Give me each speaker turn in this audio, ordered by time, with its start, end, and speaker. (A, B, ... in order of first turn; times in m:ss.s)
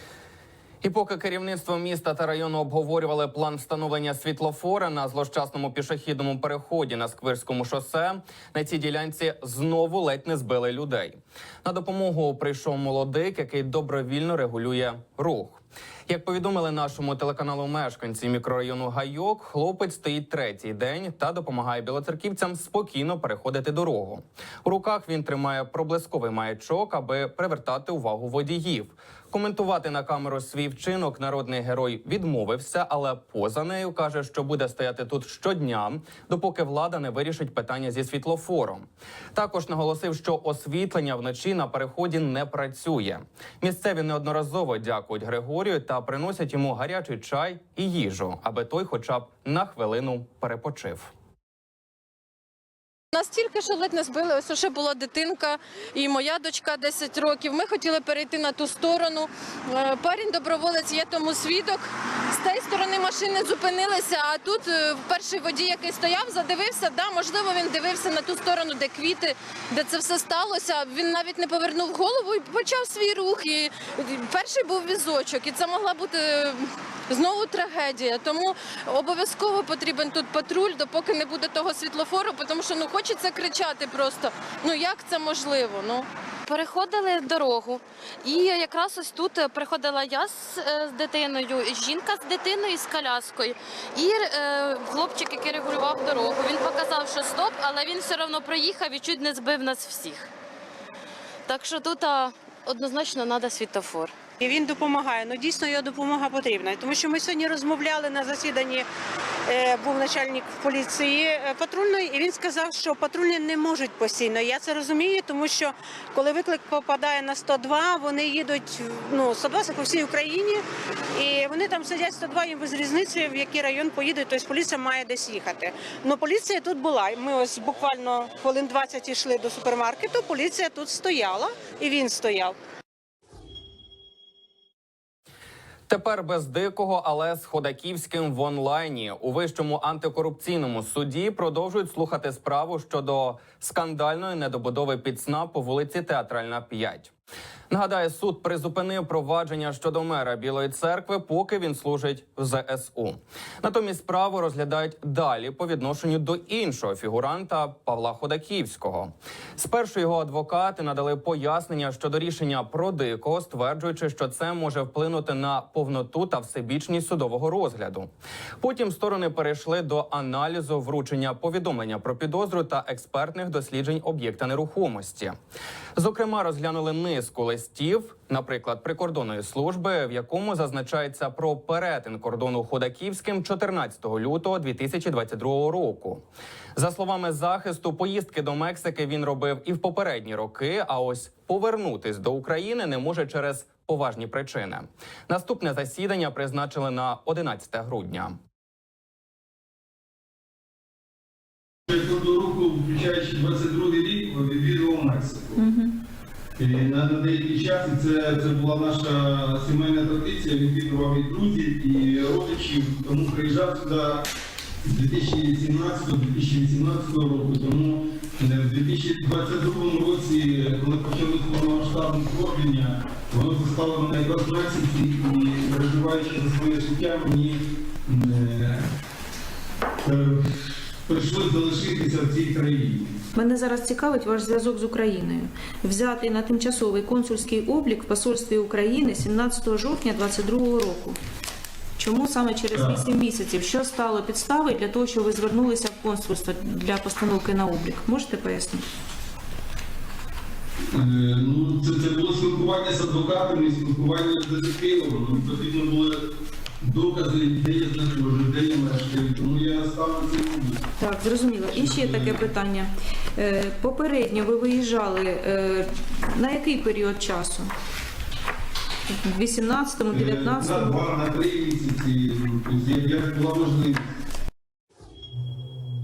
0:00.8-0:51.1 A
0:53.1-1:26.1 B
1:26.5-1:40.3 C
1:41.5-1:44.1 C
1:44.4-1:48.9 D
1:49.5-2:00.6 D
2:01.2-2:12.5 D
2:15.9-2:27.1 A
2:27.7-2:48.1 A
2:48.6-2:55.4 A
2:56.0-3:06.2 A
3:06.8-3:18.4 A
3:21.9-3:25.6 E
3:25.6-3:25.9 F
3:26.6-3:34.2 E
3:34.8-3:48.9 E
3:50.0-3:53.2 E
3:53.4-4:01.2 F
4:02.0-4:08.8 F
4:02.7-4:03.0 E
4:10.9-4:16.2 E
4:16.8-4:20.8 E
4:21.0-4:27.7 F
4:21.7-4:22.4 E
4:29.1-4:31.0 F
4:30.1-4:34.0 E